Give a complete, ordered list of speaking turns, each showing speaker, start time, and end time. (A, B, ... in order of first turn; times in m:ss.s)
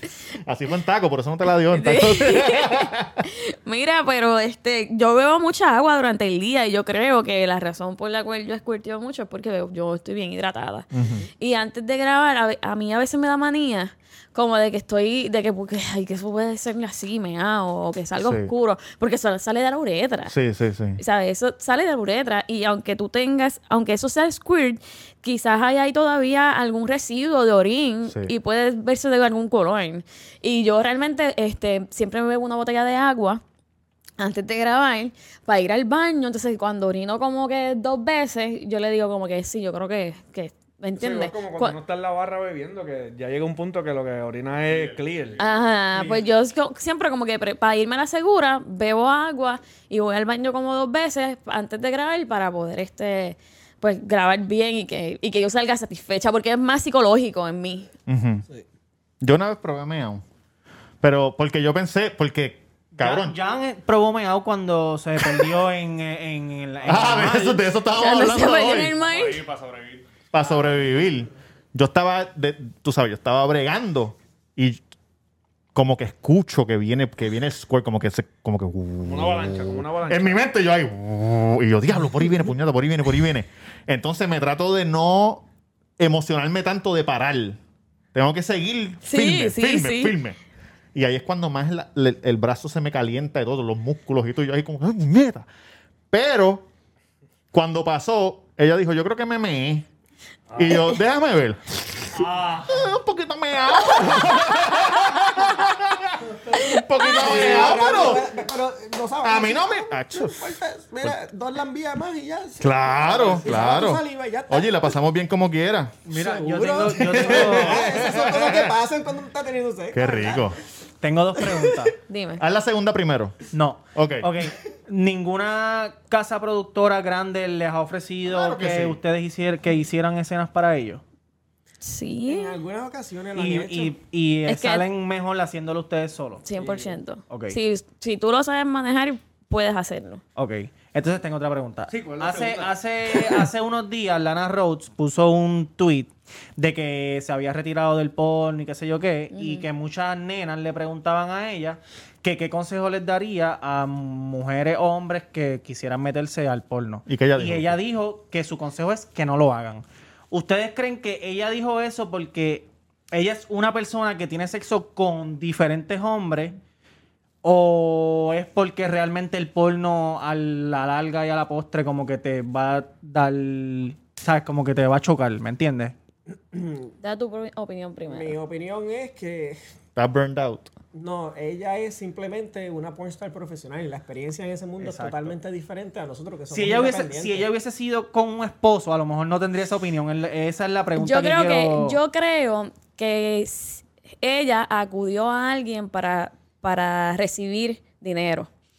0:00.4-0:03.2 A
0:01.7-0:10.9 B
0:10.9-0:11.3 A
0:11.4-0:20.3 B
0:18.2-0:18.5 A
0:20.3-0:21.0 A
0:21.0-0:33.4 B
0:28.1-0:28.3 A
0:34.2-0:41.8 B
0:41.0-0:45.4 C
0:44.7-0:45.4 D
0:45.4-0:57.9 B
0:45.9-0:46.2 C
0:58.1-0:58.4 A
0:59.2-1:00.2 A
1:01.0-1:03.4 A
1:03.0-1:07.6 E
1:06.8-1:08.9 A
1:07.9-1:09.4 B
1:09.0-1:10.6 D
1:10.3-1:14.8 A
1:15.7-1:25.5 A
1:19.0-1:20.4 C
1:26.0-1:27.6 A
1:28.1-1:30.4 A
1:29.0-1:30.1 B
1:31.0-1:35.5 A
1:36.1-1:36.7 A
1:37.5-1:39.9 A
1:40.6-1:48.2 A
1:47.1-1:54.9 F
1:49.2-1:50.5 A
1:52.6-1:56.0 A
1:56.1-1:57.9 E
1:56.1-2:00.5 F
1:57.4-1:58.5 A
1:59.9-2:00.6 A
2:01.0-2:01.9 E
2:01.5-2:01.8 F
2:02.1-2:02.4 B
2:02.4-2:03.4 A
2:03.5-2:11.0 E
2:03.9-2:04.3 A
2:08.2-2:09.0 A
2:11.8-2:12.6 B
2:12.3-2:14.0 F
2:13.3-2:16.5 E
2:14.5-2:14.8 B
2:16.4-2:20.2 B
2:17.3-2:17.6 E
2:20.4-2:46.6 E
2:21.9-2:23.4 C
2:29.3-2:29.6 B
2:37.1-2:37.8 A
2:47.4-2:56.0 E
2:56.5-2:56.9 F
2:57.0-2:58.4 B
2:58.1-2:59.6 F
3:00.0-3:00.7 A
3:00.9-3:07.5 F
3:04.8-3:05.3 E
3:06.5-3:12.0 E
3:11.0-3:18.5 B